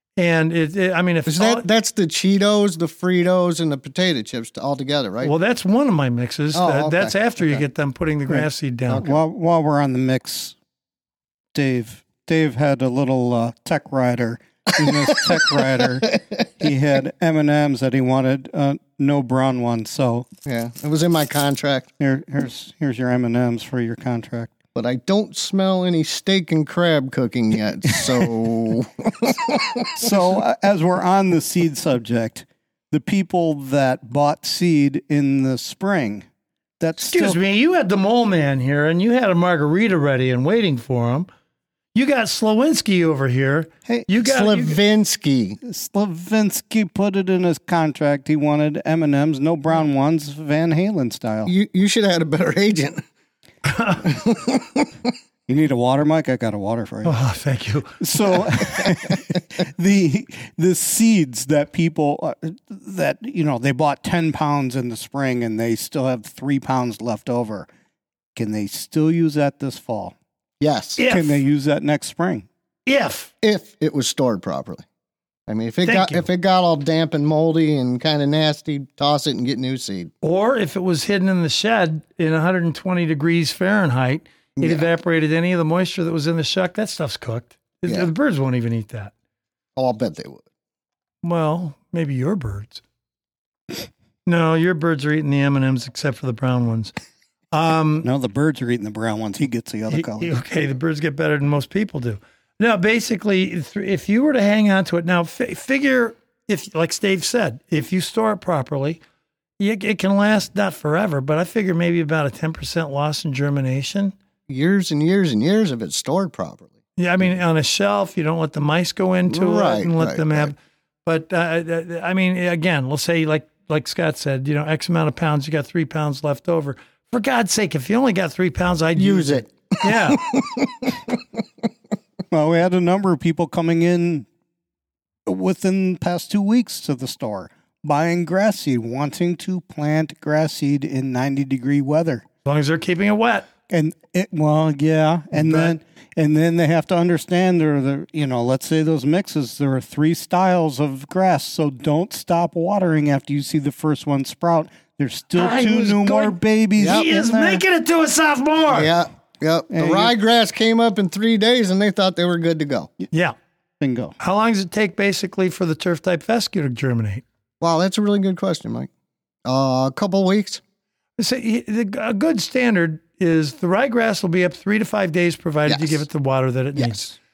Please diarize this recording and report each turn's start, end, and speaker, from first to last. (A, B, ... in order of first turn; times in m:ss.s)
0:00.2-0:01.6 A
0:01.3-0:05.3 B
0:05.2-0:09.1 A
0:06.5-0:07.6 B
0:08.9-0:09.2 B
0:09.0-0:10.6 C
0:11.5-0:20.3 C
0:20.5-0:21.9 B
0:22.0-0:24.5 C
0:24.8-0:30.2 B
0:27.9-0:28.3 C
0:30.0-0:36.3 C
0:36.8-0:37.4 C
0:37.0-0:41.3 A
0:41.9-0:44.8 A
0:44.2-0:45.6 B
0:45.6-0:51.5 C
0:51.5-0:53.0 B
0:53.6-0:54.1 A
0:54.0-0:54.9 B
0:55.5-0:57.2 C
0:57.0-0:58.0 A
0:58.0-1:07.7 C
1:08.4-1:10.2 C
1:10.6-1:11.0 B
1:11.0-1:11.4 A
1:11.1-1:12.5 C
1:12.9-1:13.3 A
1:13.4-1:14.9 B
1:15.5-1:20.1 B
1:15.8-1:16.2 A
1:20.2-1:29.1 A
1:24.6-1:24.9 B
1:29.8-1:30.4 B
1:31.2-1:32.8 A
1:34.3-1:36.9 A
1:37.5-1:38.1 A
1:38.0-1:40.4 C
1:39.9-1:49.0 A
1:49.6-1:54.1 A
1:54.5-1:56.7 B
1:57.0-2:10.3 A
1:59.3-2:00.5 B
2:09.0-2:11.2 B
2:12.3-2:14.3 C
2:15.3-2:22.2 C
2:22.4-2:23.5 A
2:23.7-2:37.6 C
2:25.4-2:25.8 A
2:35.4-2:38.9 A
2:36.8-2:37.1 B
2:38.7-2:42.9 B
2:39.7-2:40.1 C
2:43.8-2:44.2 C
2:44.2-2:47.2 A
2:47.6-2:48.9 B
2:49.5-2:50.6 B
2:51.2-2:57.2 A
2:55.7-2:56.0 B
2:56.8-2:57.0 B